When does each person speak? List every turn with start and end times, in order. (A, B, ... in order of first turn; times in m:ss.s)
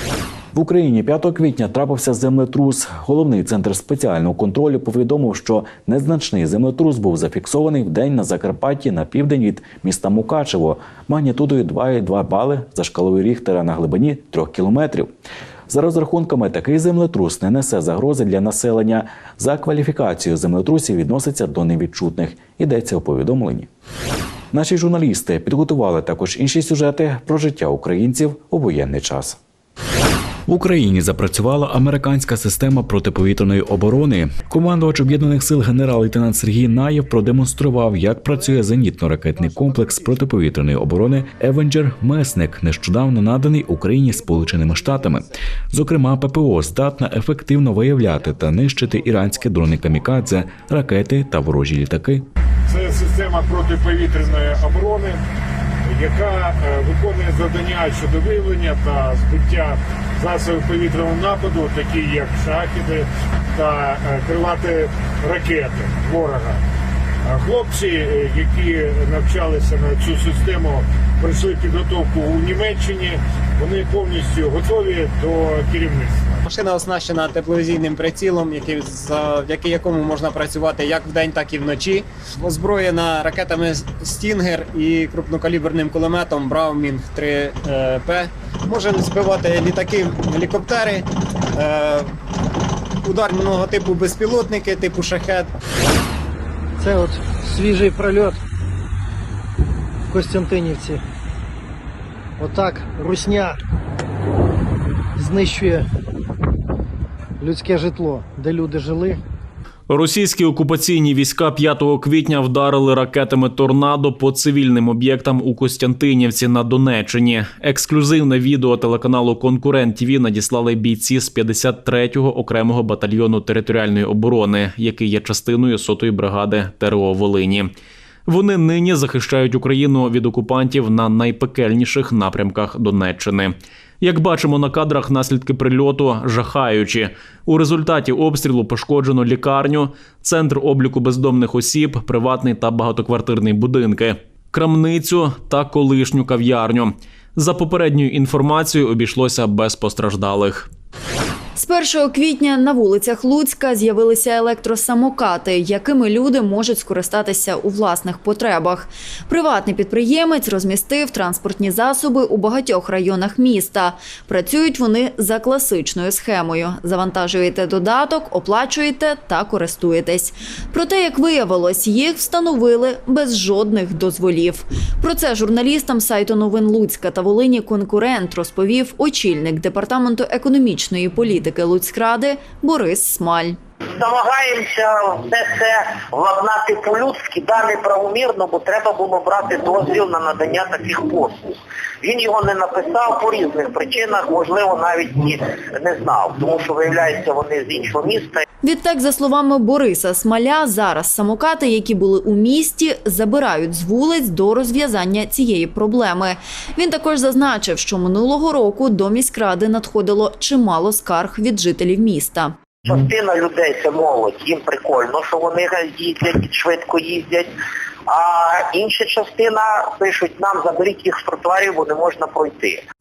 0:00.5-0:15.1 A
0:15.7-0:23.7 A
0:24.5-0:29.4 A
0:30.5-0:52.3 A
0:52.7-0:55.2 B
0:55.8-1:06.6 B
1:07.3-1:16.4 B
1:16.4-1:32.1 C
1:33.0-1:35.5 C
1:36.8-1:38.4 D
1:40.1-1:41.0 D
1:42.4-1:43.6 D
1:45.2-1:45.9 D
1:47.4-1:49.2 D
1:49.9-2:07.7 E
2:08.3-2:30.7 E
2:31.6-3:03.6 F
3:04.0-3:18.4 G
3:18.6-3:32.5 F
3:32.8-3:37.6 G
3:38.1-3:42.8 G